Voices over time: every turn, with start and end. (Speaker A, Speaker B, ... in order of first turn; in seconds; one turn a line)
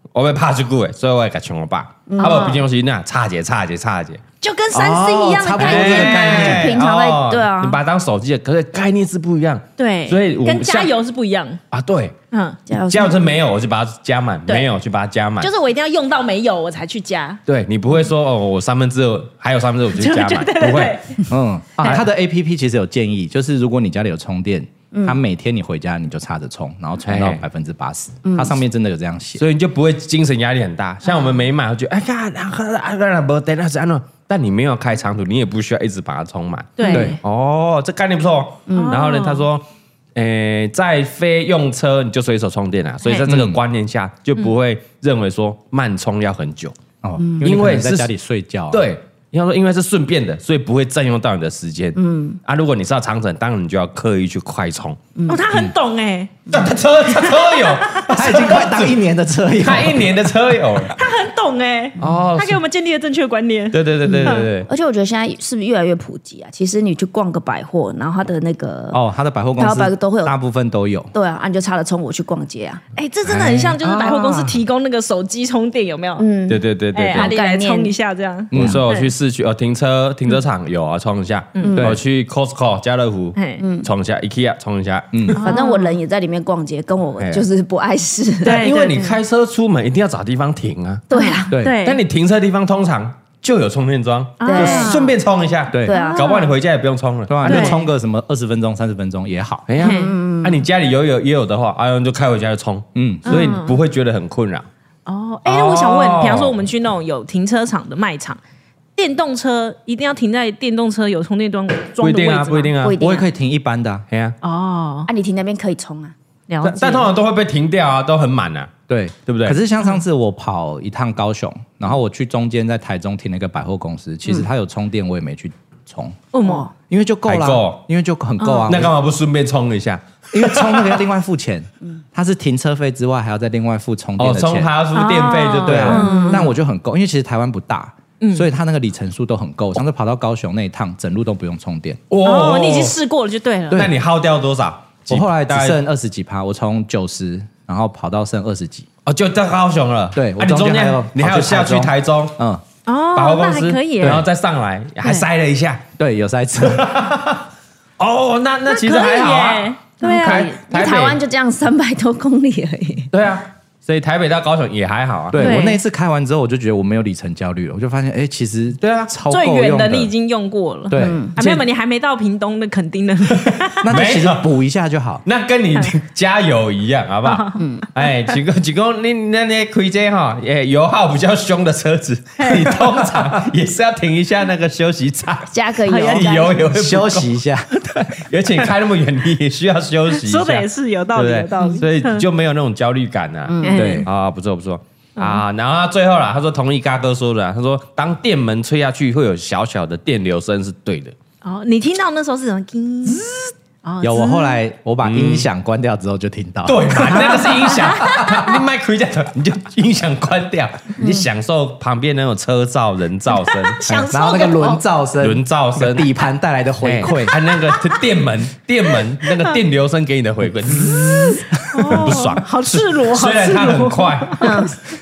Speaker A: 0.1-4.2
Speaker B: 2.1-2.6
Speaker C: 2.2-2.6
Speaker C: 4.4-6.5
Speaker D: 4.7-6.7
Speaker A: 5.6-10.9
Speaker B: 6.0-7.8
Speaker C: 9.8-11.6
Speaker A: 11.7-12.1
Speaker C: 12.3-12.6
Speaker B: 12.7-13.3
Speaker A: 12.9-15.5
Speaker C: 15.4-17.4
Speaker A: 17.4-21.0
Speaker C: 19.9-21.2
Speaker D: 21.3-29.4
Speaker B: 24.9-25.2
Speaker A: 27.0-27.4
Speaker B: 28.2-28.6
Speaker A: 29.4-46.7
Speaker C: 31.0-31.4
Speaker C: 36.8-37.2
Speaker D: 36.9-37.2
Speaker B: 38.7-39.0
Speaker C: 38.7-39.5
Speaker D: 43.3-43.6
Speaker D: 47.0-48.8
Speaker B: 47.2-47.4
Speaker A: 47.4-48.1
Speaker A: 48.7-55.0
Speaker B: 51.9-52.4
Speaker B: 55.1-55.4
Speaker C: 55.3-56.4
Speaker A: 56.5-59.0
Speaker C: 57.1-58.0
Speaker D: 58.1-60.3
Speaker A: 59.6-61.0
Speaker C: 61.0-64.5
Speaker A: 62.0-62.6
Speaker A: 63.7-64.7
Speaker B: 64.0-69.0
Speaker D: 68.9-71.1
Speaker B: 69.6-70.3
Speaker B: 71.1-72.8
Speaker C: 73.0-76.3
Speaker A: 73.3-73.8
Speaker B: 76.2-77.9
Speaker A: 76.5-77.3
Speaker C: 76.9-79.1
Speaker D: 78.5-78.8
Speaker A: 78.5-85.4
Speaker B: 81.6-82.0
Speaker D: 81.7-82.0
Speaker C: 83.3-83.6
Speaker B: 83.6-83.9
Speaker D: 85.1-85.4
Speaker C: 85.3-86.0
Speaker B: 85.4-89.2
Speaker A: 87.2-87.4
Speaker C: 88.4-89.1
Speaker A: 88.4-91.0
Speaker B: 91.1-91.5
Speaker C: 91.1-92.0
Speaker D: 91.5-91.8
Speaker A: 91.7-97.8
Speaker C: 94.4-95.1
Speaker B: 94.4-95.0
Speaker D: 95.7-96.0
Speaker B: 95.8-96.5
Speaker C: 95.9-96.5
Speaker D: 97.3-99.7
Speaker C: 97.4-97.8
Speaker A: 99.7-104.7
Speaker C: 99.8-100.2
Speaker B: 99.8-100.6
Speaker D: 102.9-103.3
Speaker C: 103.3-103.8
Speaker C: 105.0-108.4
Speaker A: 105.4-106.6
Speaker C: 109.0-112.8
Speaker A: 112.0-113.0
Speaker B: 112.8-113.3
Speaker D: 113.0-114.0
Speaker A: 114.1-114.3
Speaker C: 114.4-115.1
Speaker B: 115.1-116.1
Speaker C: 116.5-117.1
Speaker A: 116.6-118.7
Speaker D: 118.9-126.2
Speaker A: 119.2-119.6
Speaker C: 126.3-126.7
Speaker B: 126.4-126.7
Speaker D: 126.9-128.9
Speaker A: 127.2-127.8
Speaker C: 128.4-128.7
Speaker A: 128.7-131.0
Speaker D: 130.3-134.7
Speaker A: 134.2-136.1
Speaker C: 134.9-136.5
Speaker D: 135.6-142.0
Speaker B: 136.0-136.4
Speaker C: 138.2-138.5
Speaker A: 142.1-142.9
Speaker C: 142.2-143.9
Speaker D: 143.7-143.9
Speaker A: 143.7-145.8
Speaker D: 145.1-148.9
Speaker A: 149.1-152.4
Speaker D: 150.1-152.6
Speaker C: 152.8-154.2
Speaker A: 153.1-155.8
Speaker D: 154.0-154.3
Speaker D: 156.0-156.9
Speaker A: 156.6-157.4
Speaker A: 158.0-161.2
Speaker C: 158.7-160.6
Speaker B: 160.0-163.1
Speaker A: 163.1-165.5
Speaker D: 165.3-170.1
Speaker C: 165.4-165.8
Speaker A: 168.8-169.1
Speaker C: 169.3-173.8
Speaker D: 170.9-171.3
Speaker B: 170.9-171.3
Speaker A: 173.4-174.5
Speaker D: 173.8-175.2
Speaker A: 175.2-201.1
Speaker C: 177.2-177.6
Speaker B: 177.6-177.9
Speaker C: 182.4-182.7
Speaker B: 185.5-186.6
Speaker C: 185.9-186.3
Speaker D: 186.7-187.7
Speaker C: 190.1-192.2
Speaker B: 191.5-191.8
Speaker B: 193.4-194.1
Speaker C: 193.6-194.1
Speaker D: 193.7-194.1
Speaker C: 195.2-195.4
Speaker C: 201.4-203.2
Speaker C: 203.8-204.6
Speaker D: 204.0-208.4
Speaker A: 205.0-205.5
Speaker A: 206.7-213.8
Speaker B: 211.0-211.2
Speaker C: 213.5-214.8
Speaker D: 213.9-217.3
Speaker A: 215.2-216.1
Speaker A: 216.8-224.7
Speaker C: 221.0-224.8
Speaker B: 224.4-224.8